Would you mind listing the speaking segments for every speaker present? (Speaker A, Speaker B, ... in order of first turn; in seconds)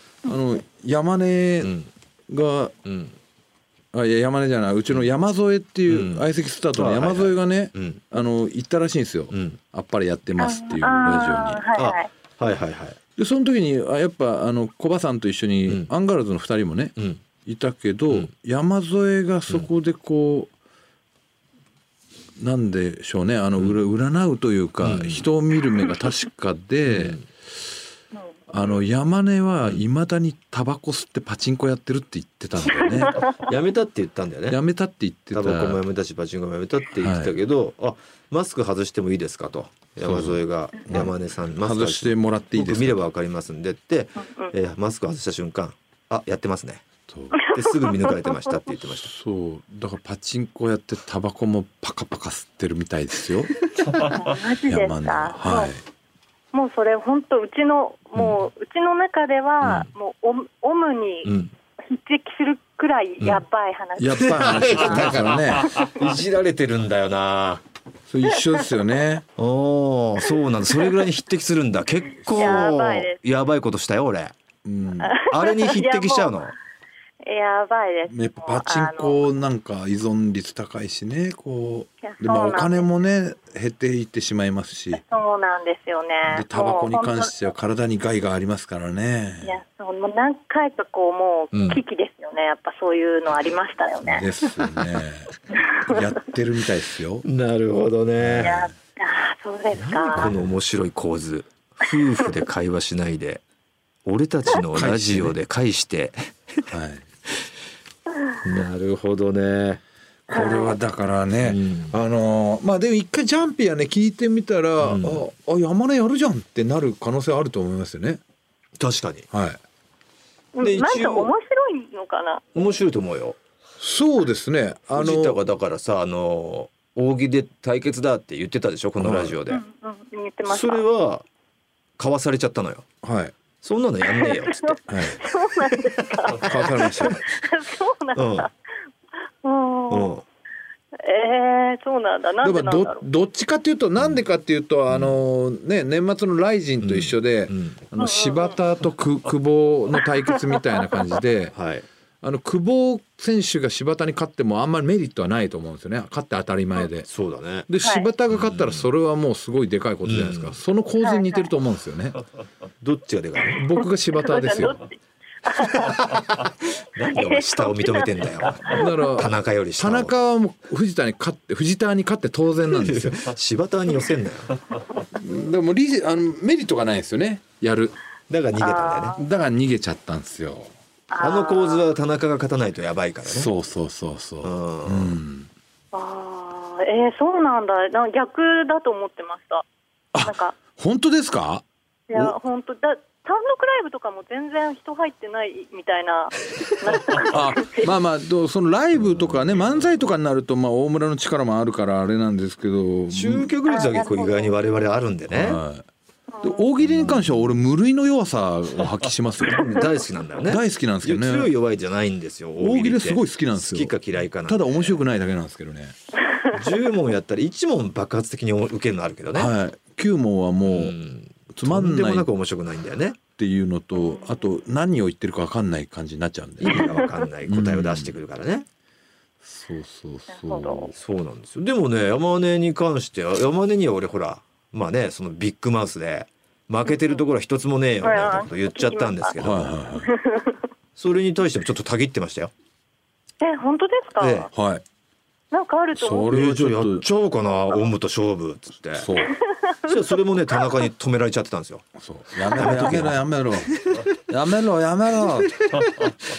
Speaker A: 0.2-1.7, 2.3-2.7, 3.9-11.6, 13.2-20.5, 22.4-27.2, 28.5-33.2, 34.5-35.8, 36.9-37.3, 40.0-43.1, 47.1-47.3, 49.0-53.5, 54.7-55.8, 64.0-65.7, 68.1-69.2, 74.6-75.1, 78.1-85.0, 86.2-89.6, 94.0-95.3, 95.8-97.2, 98.2-98.7, 100.2-100.5, 104.7-105.3, 106.7-107.0, 110.3-118.2, 119.3-119.6, 123.8-125.4, 129.0-129.4, 133.0-133.3, 134.9-135.2, 136.4-137.2, 142.4-151.5, 152.2-157.1, 157.7-162.2, 163.5-164.8, 168.7-173.2, 175.1-178.0, 179.2-180.7, 183.2-185.5, 190.1-192.3, 197.3-203.5, 205.3-205.8, 206.4-209.9, 210.4-211.5, 212.6-215.9, 219.3-221.0, 221.5-222.3, 223.4-228.1, 229.4-230.9, 239.4-240.1, 244.5-244.8, 245.9-247.1, 248.9-249.3, 252.0-255.7
Speaker B: 1.6-1.9, 2.8-3.1, 5.9-8.0, 9.3-9.6, 11.8-13.0, 24.8-25.2, 26.9-27.2, 33.2-34.6, 35.3-46.8, 47.4-49.1, 59.6-59.9, 61.2-61.5, 64.2-67.6, 69.4-74.3, 75.3-76.5, 91.5-91.8, 97.2-98.6, 99.7-103.4, 104.0-106.6, 108.4-109.8, 111.4-112.0, 114.8-115.2, 118.8-119.2, 120.6-121.3, 122.5-123.3, 124.9-129.6, 130.4-131.2, 132.0-132.8, 133.6-136.4, 138.1-138.5, 139.9-140.2, 144.9-145.2, 146.8-147.8, 151.5-151.8, 157.1-157.7, 158.3-158.9, 160.0-160.6, 162.8-163.6, 165.6-170.1, 172.7-174.6, 178.3-179.2, 181.2-183.5, 184.4-185.2, 203.1-205.6, 206.8-207.3, 209.4-215.0, 216.5-219.5, 220.7-223.2, 226.6-228.7, 230.9-239.7, 241.0-242.5, 244.2-244.5, 246.3-249.1, 249.8-251.9, 252.4-254.0
Speaker C: 10.4-12.1, 32.9-33.2, 44.2-44.5, 47.4-48.5, 53.9-55.7, 56.5-65.2, 72.3-73.2, 75.0-76.4, 77.2-79.2, 82.0-82.9, 85.1-87.3, 89.4-94.2, 95.6-96.0, 98.4-100.3, 110.3-110.8, 120.5-122.6, 129.5-130.8, 134.1-138.5, 139.4-140.1, 141.0-143.0, 148.0-148.6, 150.3-150.6, 157.8-158.1, 161.0-161.5, 163.8-166.0, 167.1-168.9, 178.6-179.2, 181.1-181.8, 185.9-189.6, 190.2-190.5, 192.1-197.9, 203.7-204.6, 206.3-206.7, 224.0-224.3, 230.3-230.9, 238.0-239.3, 240.0-240.6, 243.4-244.5, 245.5-246.3